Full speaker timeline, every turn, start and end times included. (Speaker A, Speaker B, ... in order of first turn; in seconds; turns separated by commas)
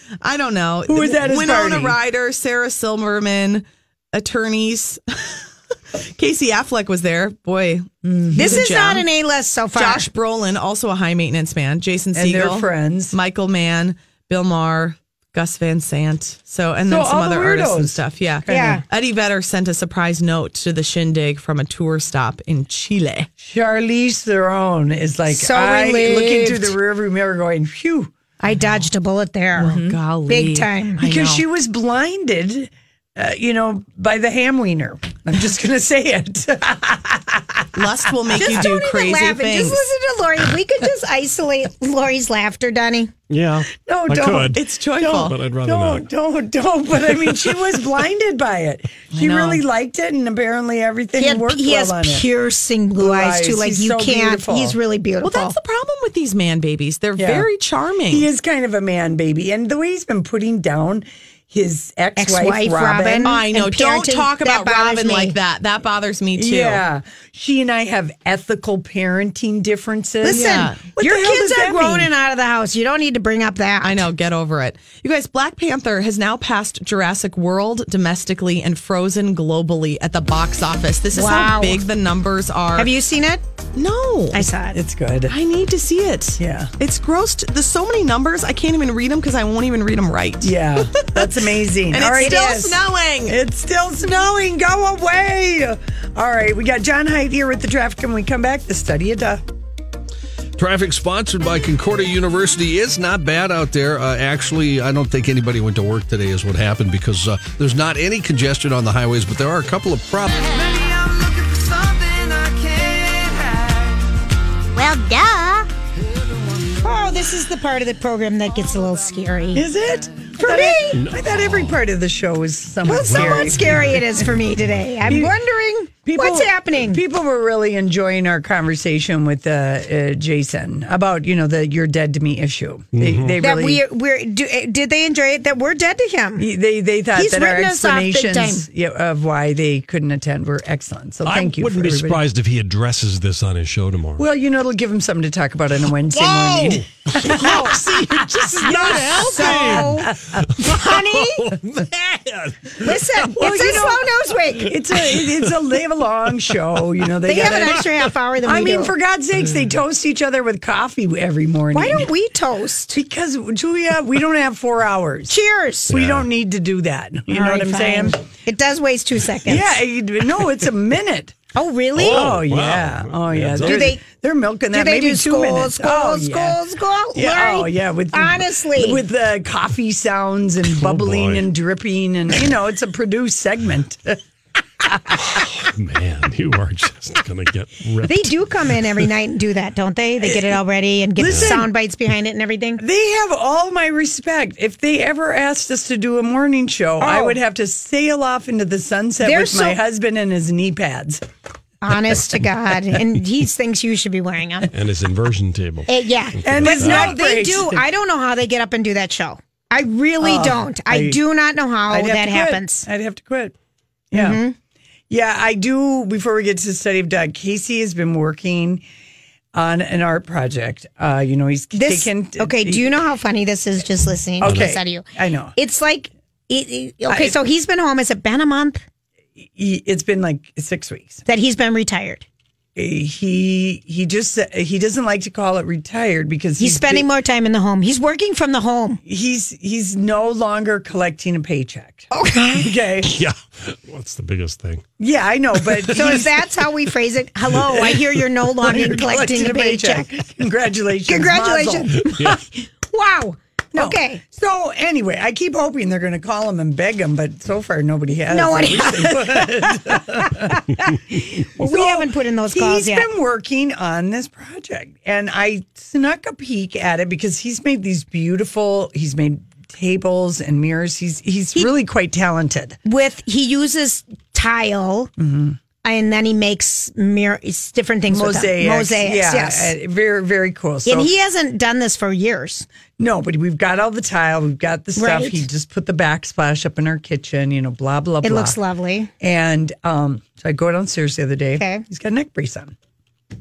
Speaker A: 0.2-5.4, Speaker B: 0.9-2.0, Speaker A: 6.0-9.1, Speaker B: 8.0-8.7, Speaker C: 8.4-10.1, Speaker A: 9.8-23.3, Speaker B: 12.2-13.2, Speaker B: 16.9-18.8, Speaker C: 18.5-18.8, Speaker B: 23.4-28.1, Speaker C: 25.3-26.7, Speaker C: 28.4-31.0, Speaker A: 29.6-31.4, Speaker B: 31.0-38.7, Speaker A: 37.8-39.8, Speaker C: 38.4-43.1, Speaker D: 43.3-44.6, Speaker B: 43.7-52.3, Speaker A: 44.5-45.4, Speaker D: 45.2-46.0, Speaker A: 49.1-49.6, Speaker C: 51.2-55.6, Speaker B: 53.0-54.8, Speaker A: 55.2-58.3, Speaker B: 57.2-57.5, Speaker B: 58.1-63.4, Speaker C: 62.2-65.3, Speaker A: 63.2-66.8, Speaker B: 66.3-72.1, Speaker C: 70.2-74.1, Speaker A: 70.2-70.8, Speaker A: 73.8-82.9, Speaker C: 81.1-81.8, Speaker C: 82.8-83.4, Speaker A: 83.8-84.5, Speaker C: 84.3-84.8, Speaker B: 84.7-85.4, Speaker A: 85.3-91.4, Speaker B: 86.4-86.7, Speaker B: 90.4-99.4, Speaker A: 91.9-93.4, Speaker C: 92.2-92.7, Speaker E: 100.6-110.5, Speaker B: 110.5-114.2, Speaker C: 114.8-115.7, Speaker C: 116.8-119.7, Speaker B: 119.5-124.0, Speaker C: 120.4-121.0, Speaker D: 121.0-121.2, Speaker C: 122.8-127.0, Speaker D: 122.9-124.3, Speaker B: 125.1-125.3, Speaker B: 126.1-133.8, Speaker D: 132.9-133.4, Speaker C: 133.4-136.5, Speaker B: 136.4-142.2, Speaker C: 137.2-138.7, Speaker D: 141.2-144.2, Speaker B: 144.2-150.5, Speaker D: 146.1-153.9, Speaker C: 148.7-151.5, Speaker C: 152.8-154.7, Speaker B: 153.3-154.1, Speaker B: 154.6-157.8, Speaker D: 155.0-155.7, Speaker C: 157.3-158.9, Speaker B: 158.4-162.1, Speaker C: 161.7-162.9, Speaker B: 162.9-165.4, Speaker C: 165.3-166.0, Speaker B: 165.9-168.2, Speaker D: 165.9-166.3, Speaker C: 167.3-169.8, Speaker B: 169.5-171.3, Speaker C: 171.6-172.3, Speaker B: 171.9-176.6, Speaker D: 172.0-173.9, Speaker C: 173.6-174.0, Speaker C: 174.7-179.0, Speaker B: 177.2-184.2, Speaker D: 180.7-181.4, Speaker B: 184.8-185.4, Speaker D: 185.2-189.1, Speaker C: 188.0-192.8, Speaker B: 190.2-190.6, Speaker B: 191.2-191.7, Speaker D: 191.2-191.6, Speaker B: 192.8-201.2, Speaker C: 197.0-197.4, Speaker C: 199.2-199.8, Speaker C: 201.8-204.7, Speaker D: 204.7-207.2, Speaker C: 205.9-212.9, Speaker B: 206.4-207.8, Speaker B: 210.2-211.2, Speaker B: 211.9-213.5, Speaker B: 214.1-214.4, Speaker C: 214.1-214.6, Speaker B: 215.1-218.8, Speaker B: 219.5-223.0, Speaker C: 221.8-228.8, Speaker B: 224.4-225.6, Speaker D: 224.4-224.7, Speaker B: 227.1-227.4, Speaker B: 229.4-231.2, Speaker C: 231.3-232.3, Speaker B: 232.8-237.1, Speaker C: 236.6-239.0, Speaker B: 239.1-243.2, Speaker C: 242.1-242.7, Speaker D: 243.1-244.8, Speaker B: 245.0-246.3, Speaker C: 245.9-250.1, Speaker B: 247.6-248.0, Speaker B: 248.6-251.9, Speaker C: 251.1-254.2, Speaker D: 252.1-252.4, Speaker B: 253.8-272.8, Speaker C: 258.3-260.6, Speaker C: 261.6-263.1, Speaker C: 272.9-275.1, Speaker B: 275.2-275.6, Speaker C: 275.8-279.7, Speaker B: 278.1-281.1, Speaker C: 280.9-282.7, Speaker B: 283.0-288.6, Speaker C: 285.0-285.4, Speaker C: 288.2-289.1, Speaker B: 289.2-292.8, Speaker C: 291.6-291.8